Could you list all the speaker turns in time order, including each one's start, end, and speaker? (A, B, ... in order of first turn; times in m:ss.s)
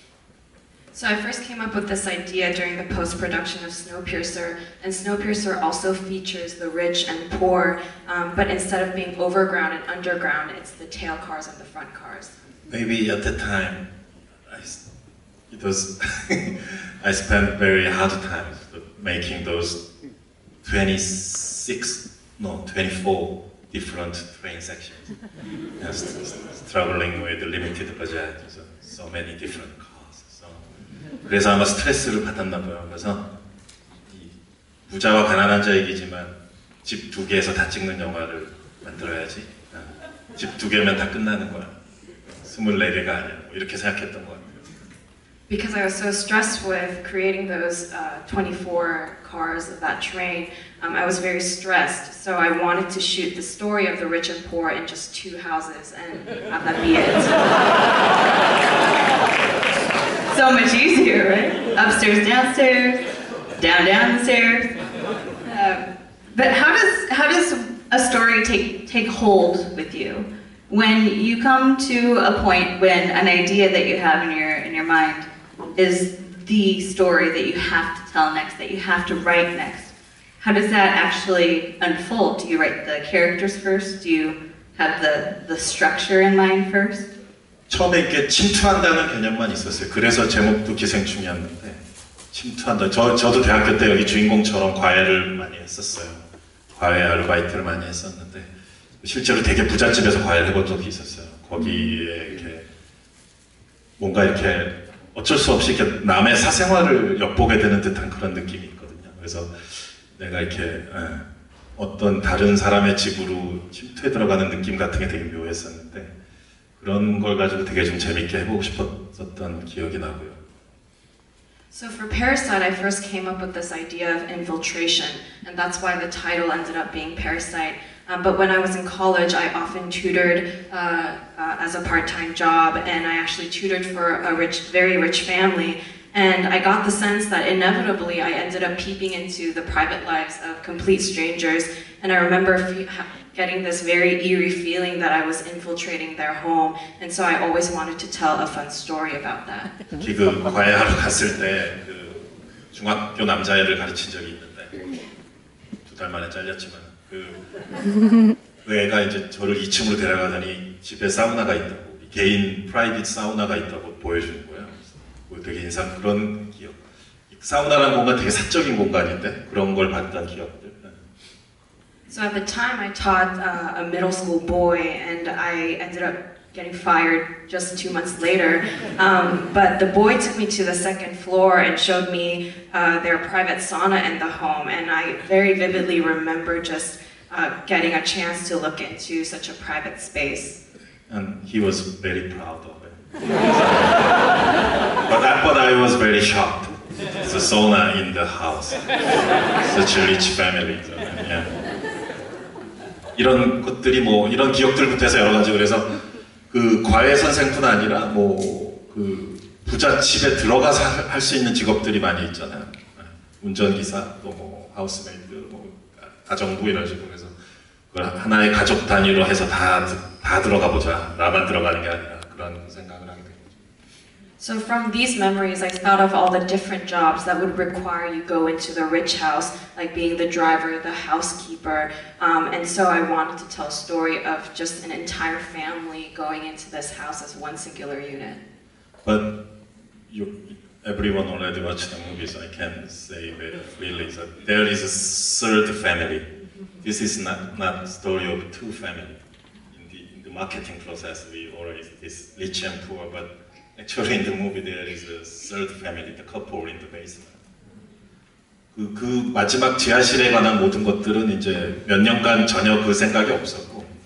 0:00.9-0:12.3 A
0:12.7-0:13.9 B
0:14.4-0:14.8 B
0:15.5-0:19.8 B
0:20.6-0:25.1 B
0:25.8-0:30.7 B
0:31.2-0:33.3 B
0:34.1-0:34.3 B
0:34.9-0:44.6 B
0:45.5-0:57.6 A
1:00.3-1:03.0 C
1:03.6-1:04.7 C
1:05.5-1:27.1 C
1:27.7-1:31.8 B
1:32.3-1:36.2 B
1:36.7-1:38.5 B
1:39.0-1:42.6 B
1:44.0-1:56.1 B
1:56.8-2:00.4 B
2:01.7-2:29.7 A
2:30.0-2:34.8 B
2:35.8-2:37.4 B
2:38.6-2:51.0 B
2:52.1-3:10.6 A
3:11.1-3:14.4 B
3:15.0-3:18.9 B
3:19.6-3:21.5 B
3:23.1-3:37.3 B
3:37.9-3:43.6 B
3:44.4-3:58.4 A
3:59.0-3:59.3 B
4:00.1-4:06.3 B
4:06.8-4:17.4 B
4:18.7-4:23.9 B